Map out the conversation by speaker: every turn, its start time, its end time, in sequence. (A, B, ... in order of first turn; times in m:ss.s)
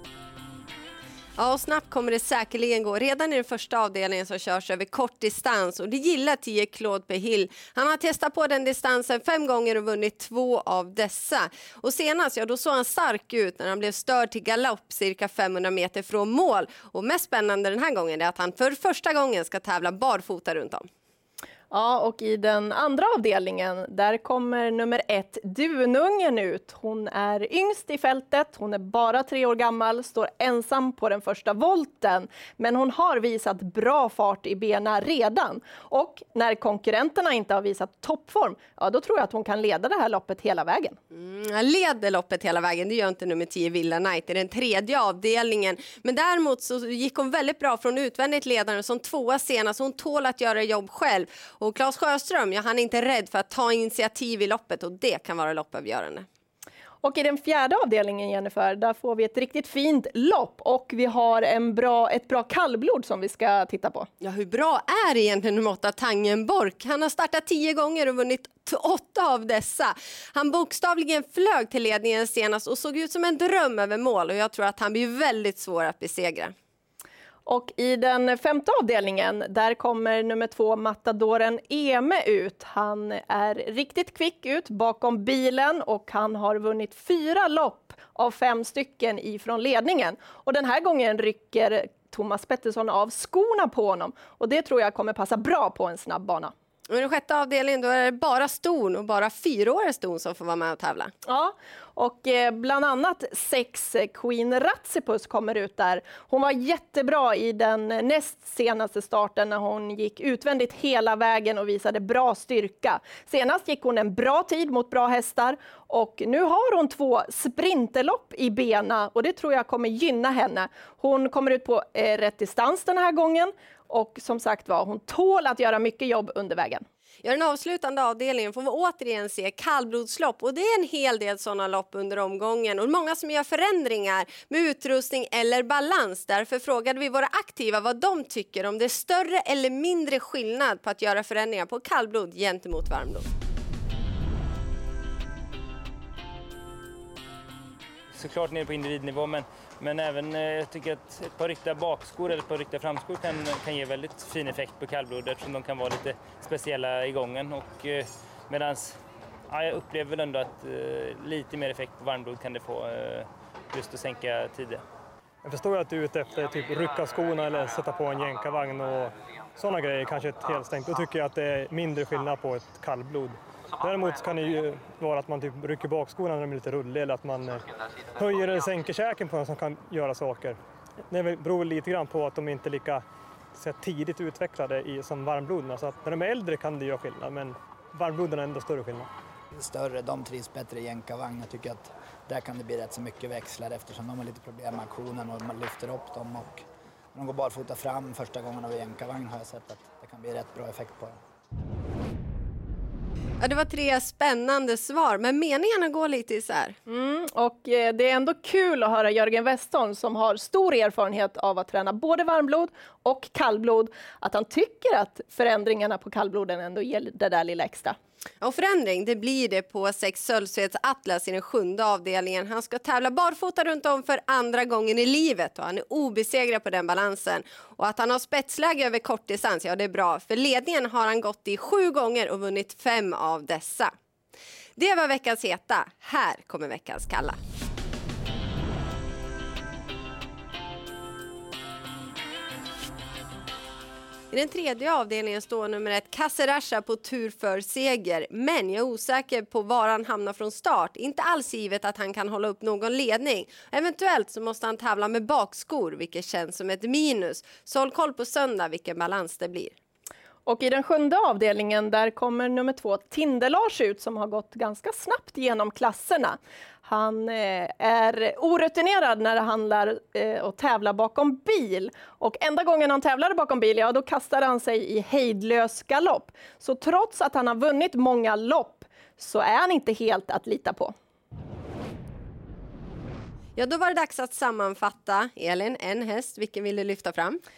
0:01.4-0:20.9 A
0:21.7-0:41.0 B
0:41.1-0:56.2 A
0:57.0-1:04.1 B
1:04.2-1:16.5 A
1:17.5-1:36.5 B
1:36.9-1:41.1 A
1:41.3-2:06.8 B
2:07.2-2:23.2 A
2:31.5-2:32.6 C
2:33.1-2:34.4 C
2:35.5-2:37.9 C
2:40.7-2:41.5 C
2:42.5-2:42.9 C
2:43.8-2:44.4 C
2:45.4-3:00.6 D
3:01.1-3:03.0 D
3:03.5-3:09.1 D
3:09.5-3:21.2 E
3:23.4-3:26.8 A
3:26.9-3:38.0 B
3:38.4-3:53.9 A
3:54.8-3:57.4 A
4:04.3-4:19.7 A
4:20.5-4:40.9 B
4:43.6-4:47.4 A